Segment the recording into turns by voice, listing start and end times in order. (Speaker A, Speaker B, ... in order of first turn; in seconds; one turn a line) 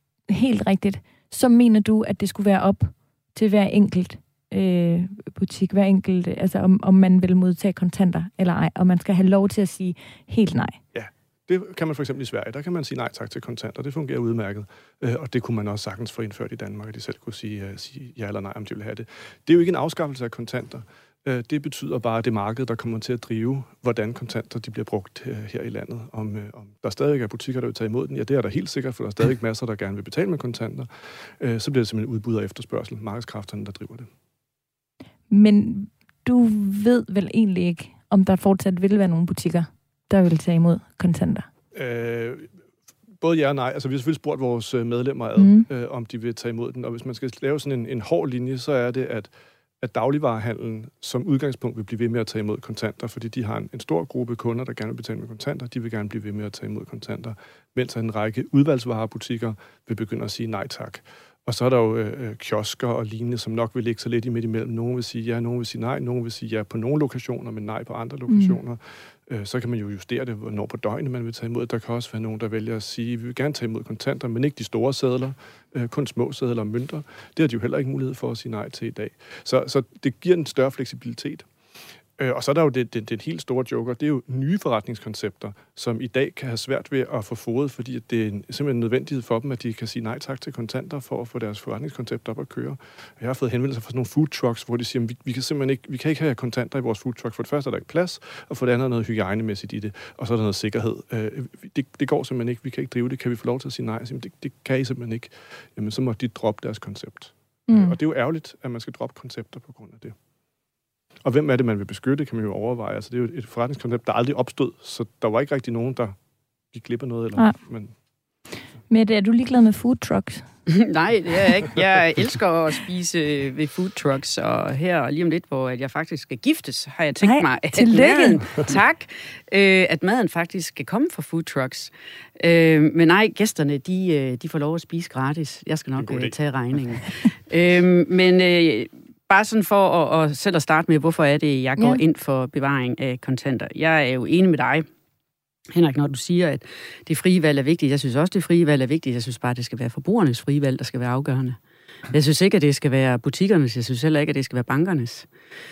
Speaker A: 0.3-10.8
Speaker B: 10.9-34.1
Speaker A: 35.3-41.5
Speaker B: 41.7-42.5
Speaker B: 43.2-81.5
Speaker A: 45.4-45.7
Speaker A: 68.3-68.6
Speaker B: 82.2-110.2
Speaker A: 107.7-108.0
Speaker B: 111.2-116.2
Speaker B: 116.7-117.9
Speaker A: 118.9-120.5
Speaker C: 120.7-144.9
Speaker A: 127.2-128.6
Speaker B: 136.0-136.3
Speaker C: 145.7-151.6
Speaker C: 152.1-155.3